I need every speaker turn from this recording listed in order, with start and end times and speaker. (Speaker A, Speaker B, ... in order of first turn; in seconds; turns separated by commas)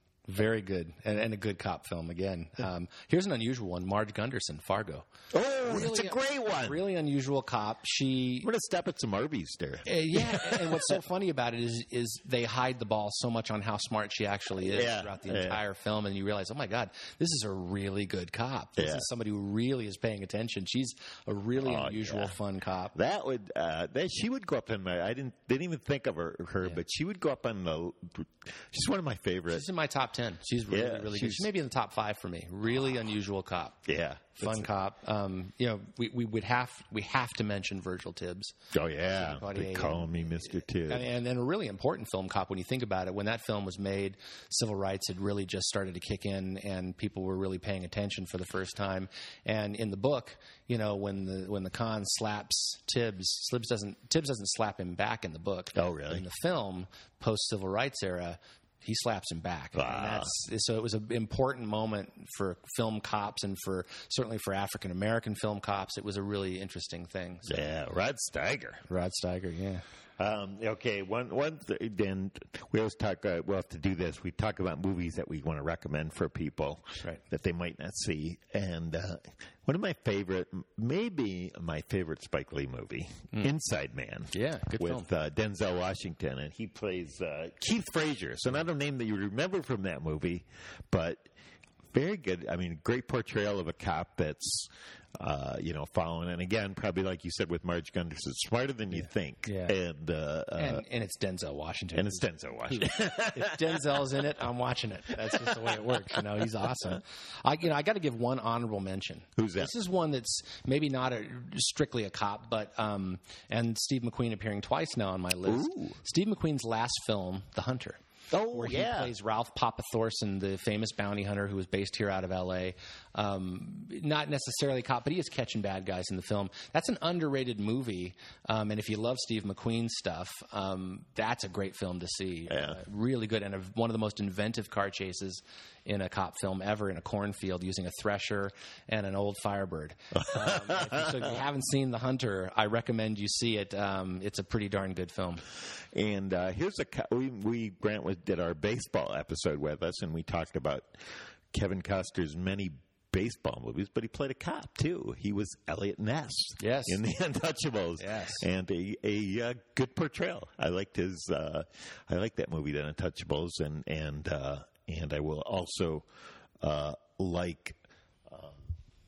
Speaker A: 0.3-5.1, Speaker B: 5.3-6.8, Speaker A: 5.6-8.5, Speaker B: 8.4-11.0, Speaker A: 9.8-22.9, Speaker B: 14.6-15.6, Speaker B: 18.8-19.1, Speaker B: 21.6-22.3, Speaker B: 22.9-29.6, Speaker A: 29.5-33.8, Speaker B: 30.7-31.5, Speaker B: 33.9-34.7, Speaker A: 34.4-38.5, Speaker B: 38.7-41.1, Speaker A: 39.1-67.5, Speaker B: 55.7-56.2, Speaker B: 59.8-60.3, Speaker B: 67.5-68.8, Speaker A: 68.9-69.8, Speaker B: 70.2-91.3, Speaker A: 84.3-85.1, Speaker B: 91.9-100.8, Speaker A: 99.0-99.7, Speaker A: 100.5-145.4, Speaker B: 101.9-104.1, Speaker B: 105.2-106.4, Speaker B: 109.4-109.7, Speaker B: 115.5-116.0, Speaker B: 118.3-119.1, Speaker B: 132.5-132.8, Speaker B: 140.1-141.3, Speaker B: 145.9-151.0, Speaker B: 151.5-166.1, Speaker A: 156.6-157.0, Speaker A: 158.0-158.4, Speaker B: 166.6-168.6